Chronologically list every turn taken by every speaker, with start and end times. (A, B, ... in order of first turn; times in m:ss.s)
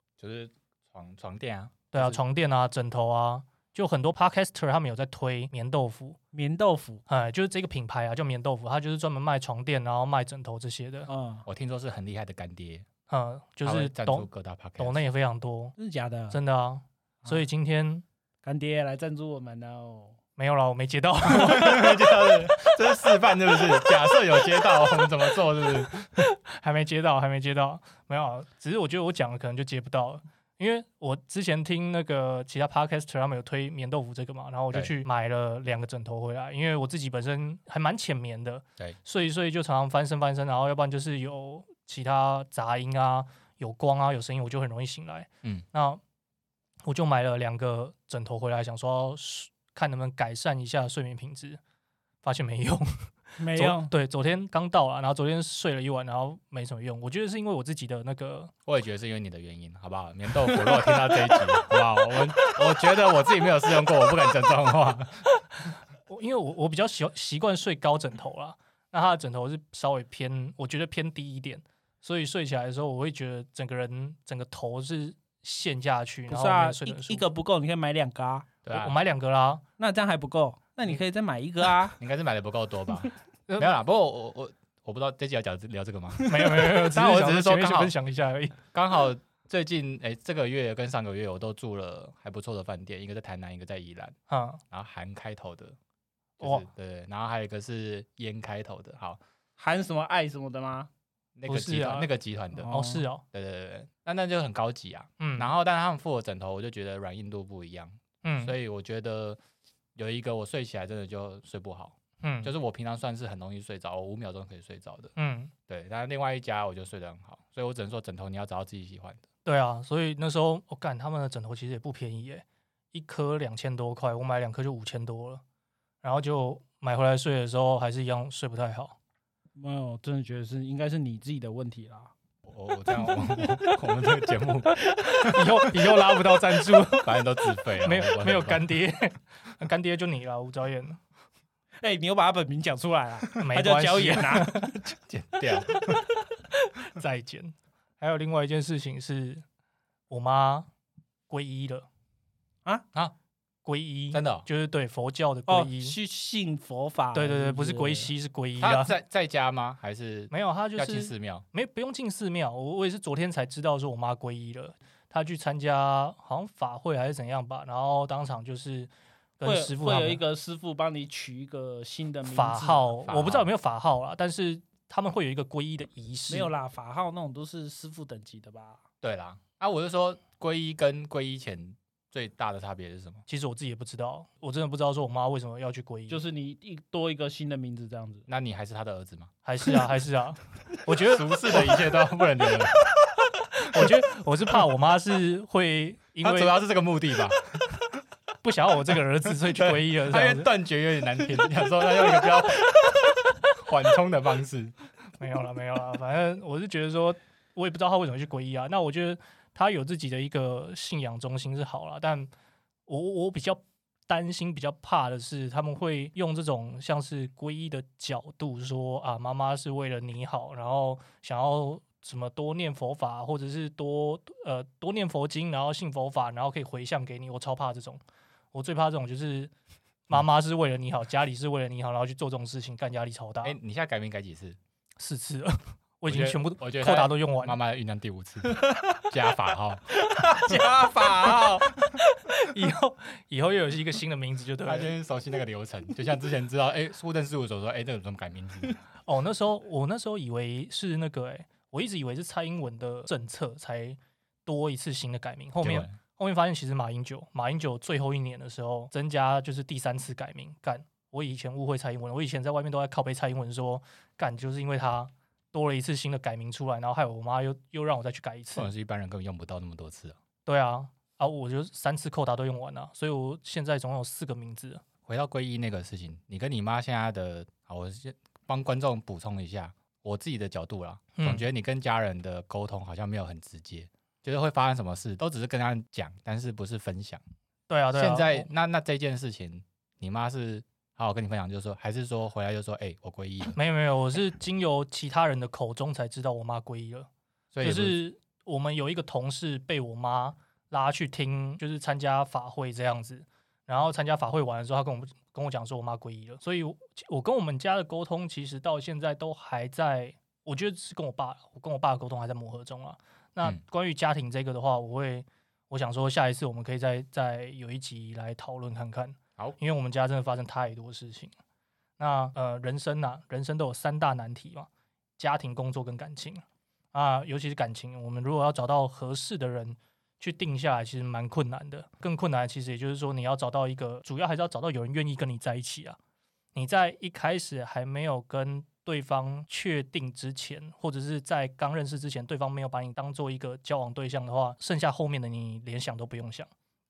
0:00.2-0:02.2 A
0:01.9-0:06.2 B
0:06.3-0:07.0 C
0:07.1-0:11.1 B
0:11.1-0:11.4 C
0:11.5-0:12.9 A
0:13.1-0:15.7 B
0:13.6-0:15.0 A
0:15.8-0:16.4 C
0:16.3-0:18.0 B
0:18.4-0:20.2 C
0:20.4-0:22.3 B
0:21.3-0:26.2 A
0:26.2-0:46.0 B
0:46.8-0:51.6 B
0:52.2-0:58.5 B
0:53.4-0:53.9 C
0:58.7-1:05.3 A
1:00.5-1:01.3 C
1:06.1-1:17.3 B
1:16.3-1:18.5 C
1:18.6-1:18.9 A
1:18.7-1:19.6 B
1:19.8-1:22.0 C
1:22.0-1:28.0 A
1:26.2-1:26.7 C
1:26.3-1:28.6 B
1:28.7-1:34.2 A
1:34.3-1:34.6 B
1:34.7-1:35.8 A
1:36.4-1:39.2 A
1:36.4-1:36.7 B
1:39.6-1:40.9 C
1:41.4-1:42.7 A
1:41.5-1:42.1 B
1:42.6-1:43.1 C
1:42.7-1:43.2 B
1:43.2-1:49.4 A
1:45.2-1:45.5 B
1:48.2-1:48.6 B
1:50.0-1:55.1 A
1:52.2-1:52.5 B
1:55.2-1:55.5 B
1:55.7-1:59.2 A
1:59.4-2:05.4 B
2:06.0-2:09.0 B
2:09.6-2:12.1 C
2:12.5-2:15.4 A
2:14.9-2:15.3 C
2:15.2-2:17.2 B
2:16.8-2:18.7 A
2:17.8-2:21.0 B
2:21.8-2:24.7 C
2:23.4-2:24.9 B
2:25.1-2:26.1 A
2:25.6-2:29.4 B
2:30.1-2:30.7 B
2:31.3-2:31.9 B
2:33.6-2:36.0 B
2:34.1-2:34.5 A
2:35.5-2:38.1 C
2:37.1-2:38.9 B
2:38.6-2:41.5 A
2:40.3-2:50.2 B
2:49.4-2:52.9 C
2:52.3-2:56.5 B
2:53.0-2:53.5 A
2:56.3-2:58.8 C
2:59.0-3:03.2 A
3:03.3-3:06.2 B
3:06.1-3:08.3 C
3:08.3-3:09.3 A
3:09.4-3:11.7 B
3:10.9-3:13.1 A
3:13.6-3:16.6 B
3:16.2-3:17.8 A
3:18.4-3:20.5 B
3:19.4-3:24.8 A
3:25.2-3:32.3 B
3:32.9-3:48.0 B
3:48.5-3:49.5 B
3:50.1-3:53.6 B
3:53.4-3:54.6 A
3:55.0-3:57.6 B
3:56.1-3:59.9 A
3:58.5-3:59.0 C
4:00.0-4:01.8 C
4:00.5-4:04.9 B
4:04.6-4:08.8 A
4:09.1-4:28.7 B
4:15.6-4:16.0 A
4:28.6-4:30.2 A
4:30.5-4:34.8 B
4:35.1-4:47.2 A
4:41.2-4:41.4 B
4:47.7-4:48.5 B
4:47.9-4:53.6 A
4:53.6-4:57.1 B
4:57.5-4:58.0 A
4:57.6-5:21.3 B
5:22.0-5:36.0 B
5:36.6-5:46.5 B